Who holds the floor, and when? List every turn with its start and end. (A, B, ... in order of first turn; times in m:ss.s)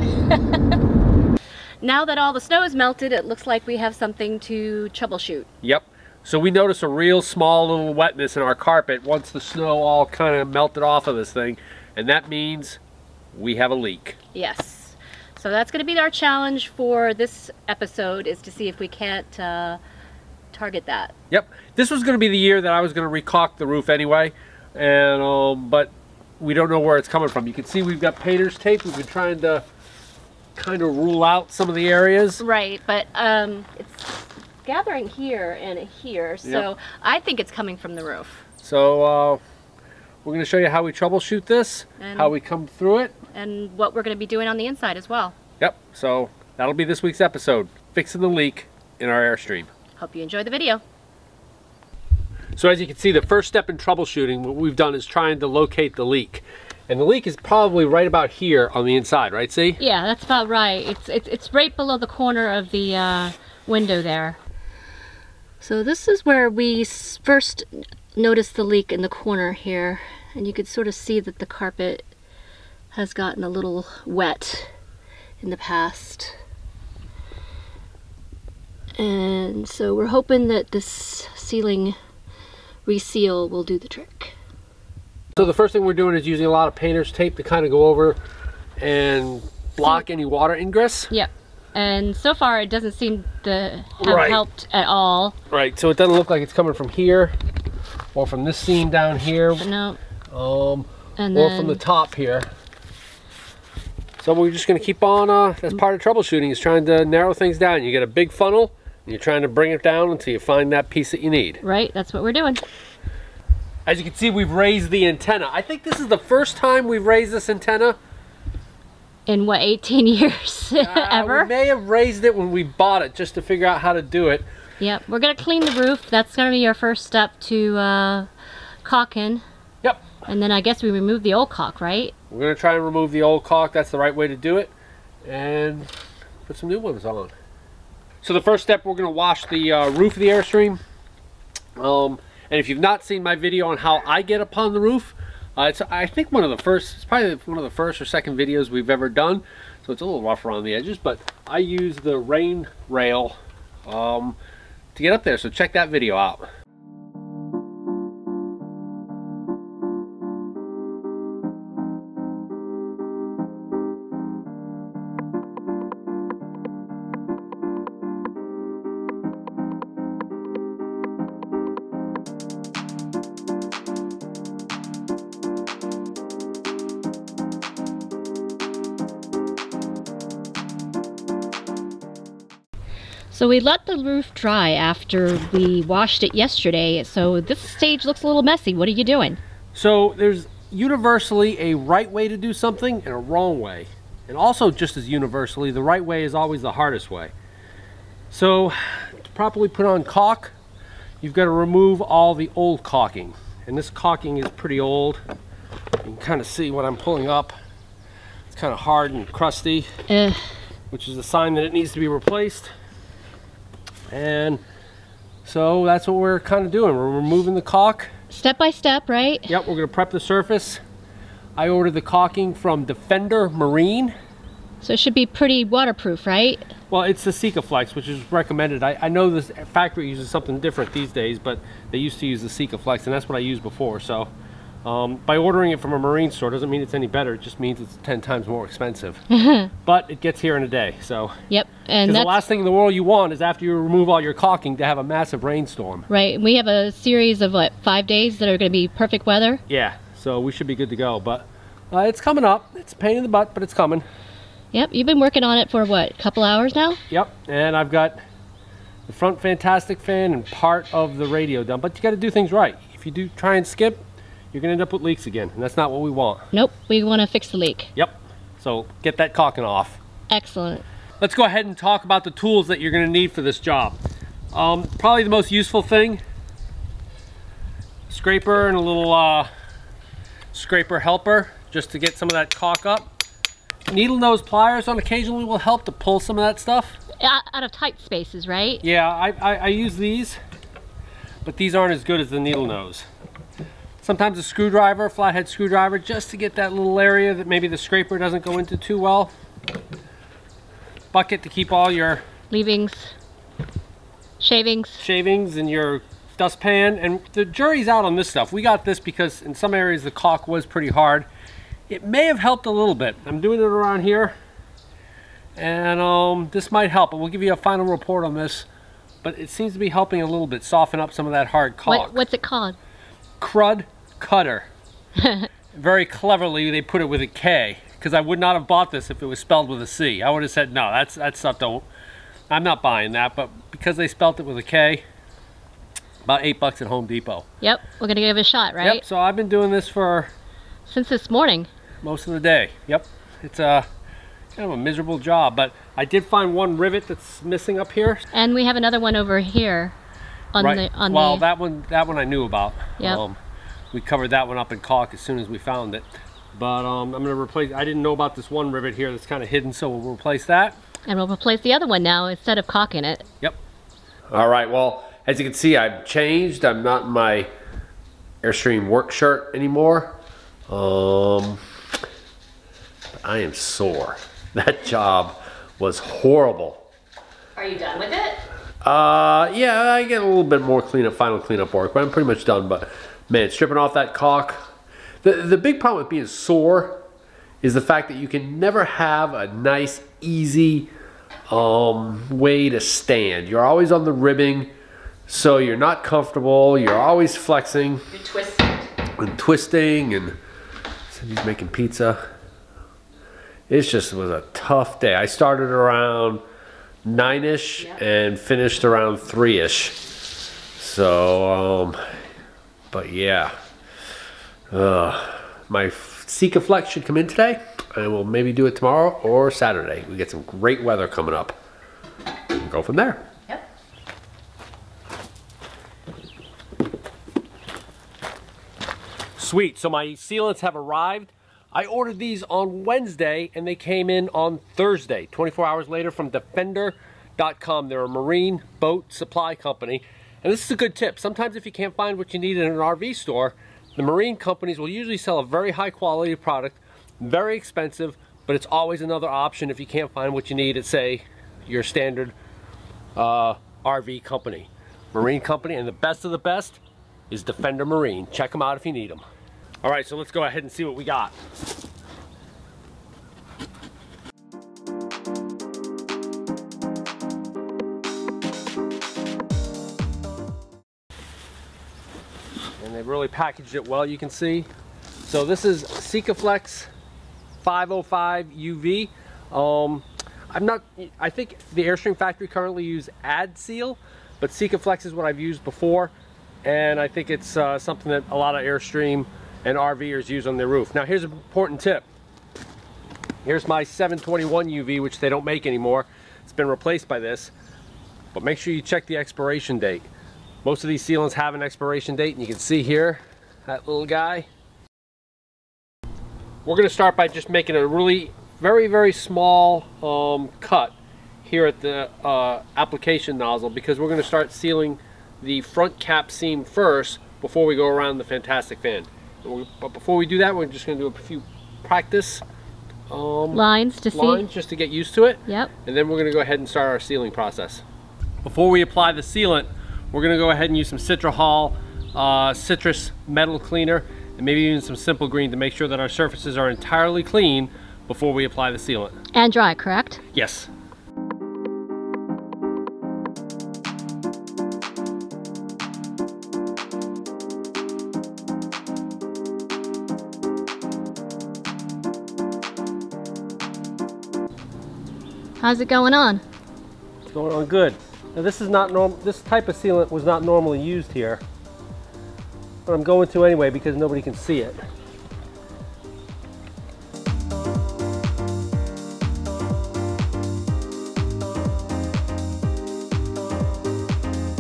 0:01.8-0:05.5 A
0:05.6-0:12.8 B
0:13.3-0:14.2 B
0:14.3-0:19.8 A
0:20.5-0:21.1 A
0:21.3-0:29.6 B
0:30.6-0:32.4 B
0:32.4-0:38.4 A
0:38.6-0:39.4 B
0:40.2-0:43.2 B
0:42.0-0:42.3 A
0:43.3-0:45.3 A
0:45.6-0:49.7 B
0:50.0-0:50.8 A
0:52.6-0:59.8 B
0:59.8-1:04.4 A
1:05.6-1:12.1 A
1:12.9-1:14.7 A
1:15.4-1:16.3 A
1:19.0-1:22.0 A
1:22.8-1:24.3 A
1:25.4-1:28.2 B
1:28.8-1:31.1 B
1:31.1-1:35.3 A
1:34.0-1:34.4 B
1:35.5-1:37.3 B
1:38.2-1:39.7 B
1:39.6-1:40.0 A
1:40.3-1:42.5 B
1:41.2-1:41.8 A
1:44.2-1:51.6 B
1:51.6-1:52.6 A
1:53.9-1:58.0 B
1:59.3-2:01.5 A
2:00.8-2:04.5 B
2:04.8-2:08.3 A
2:08.8-2:09.4 A
2:10.2-2:12.1 A
2:12.3-2:14.7 B
2:15.2-2:15.9 B
2:16.4-2:17.3 B
2:18.2-2:20.8 B
2:21.8-2:34.4 B
2:34.9-2:36.5 B
3:03.3-3:09.4 A
3:09.7-3:17.3 B
3:18.3-3:20.5 B
3:21.2-3:25.2 B
3:26.0-3:27.5 B
3:28.5-3:30.0 B
3:30.1-3:30.5 A
3:30.9-3:32.7 B
3:34.1-3:34.6 B
3:35.4-3:38.1 B
3:38.3-3:39.5 A
3:39.5-3:40.8 B
3:41.6-3:44.1 B
3:44.8-3:46.7 A
3:46.9-3:54.3 B
3:54.8-3:59.2 B
3:59.3-3:59.7 A
3:59.9-4:01.4 B
4:01.5-4:02.4 A
4:02.0-4:06.1 B
4:06.1-4:09.6 A
4:09.7-4:14.0 B
4:14.7-4:17.0 A
4:17.1-4:18.2 B
4:19.1-4:24.0 B
4:24.5-4:26.5 B
4:26.5-4:27.9 A
4:27.9-4:30.0 B
4:30.3-4:30.8 A
4:31.2-4:34.0 B
4:34.5-4:36.2 B
4:38.1-4:39.5 B
4:40.5-4:43.1 B
4:43.9-4:47.0 B
4:47.2-4:48.8 A
4:48.8-4:50.4 B
4:51.4-4:53.1 B
4:54.0-4:59.3 B
5:01.1-5:02.2 B
5:02.5-5:03.1 A
5:04.4-5:05.0 A
5:05.0-5:11.3 B
5:11.9-5:14.3 B
5:15.6-5:18.7 B
5:19.2-5:22.2 B
5:21.9-5:22.8 A
5:23.4-5:24.7 B
5:25.2-5:25.5 A
5:25.7-5:31.9 B
5:32.5-5:35.0 B
5:36.2-5:37.4 B
5:37.6-5:39.0 A
5:38.8-5:40.3 B
5:40.9-5:41.7 A
5:42.0-5:43.9 B
5:44.6-5:48.2 B
5:48.3-5:49.9 A
5:50.5-5:51.4 A
5:50.6-5:53.4 B
5:53.9-6:00.8 B
6:01.1-6:03.2 A
6:04.3-6:07.5 B
6:08.4-6:10.2 B
6:10.7-6:11.6 B
6:13.1-6:16.8 B
6:17.6-6:18.4 A
6:18.8-6:24.7 B
6:25.2-6:27.0 B
6:27.6-6:30.9 B
6:31.5-6:34.7 B
6:35.3-6:38.0 B
6:38.1-6:38.9 A
6:39.2-6:40.4 B
6:41.1-6:42.2 B
6:43.7-6:46.4 B
6:47.0-6:50.0 B
6:50.8-6:52.0 B
6:52.9-6:53.5 B
6:54.7-7:01.6 B
7:02.6-7:03.2 B
7:09.4-7:32.3 B
7:33.2-7:39.2 B
7:39.8-7:41.4 B
7:52.8-7:54.7 B
7:55.2-7:56.9 B
7:57.6-8:06.1 B
8:06.6-8:12.0 B
8:13.4-8:17.5 B
8:18.3-8:20.1 B
8:20.6-8:24.5 B
8:26.6-8:42.4 B
8:43.1-8:47.8 B
8:43.5-8:44.4 A
8:48.4-8:59.2 B
8:59.3-9:00.2 A
9:00.3-9:00.7 B
9:15.6-9:16.4 A
9:17.3-9:21.4 B
9:22.9-9:24.8 B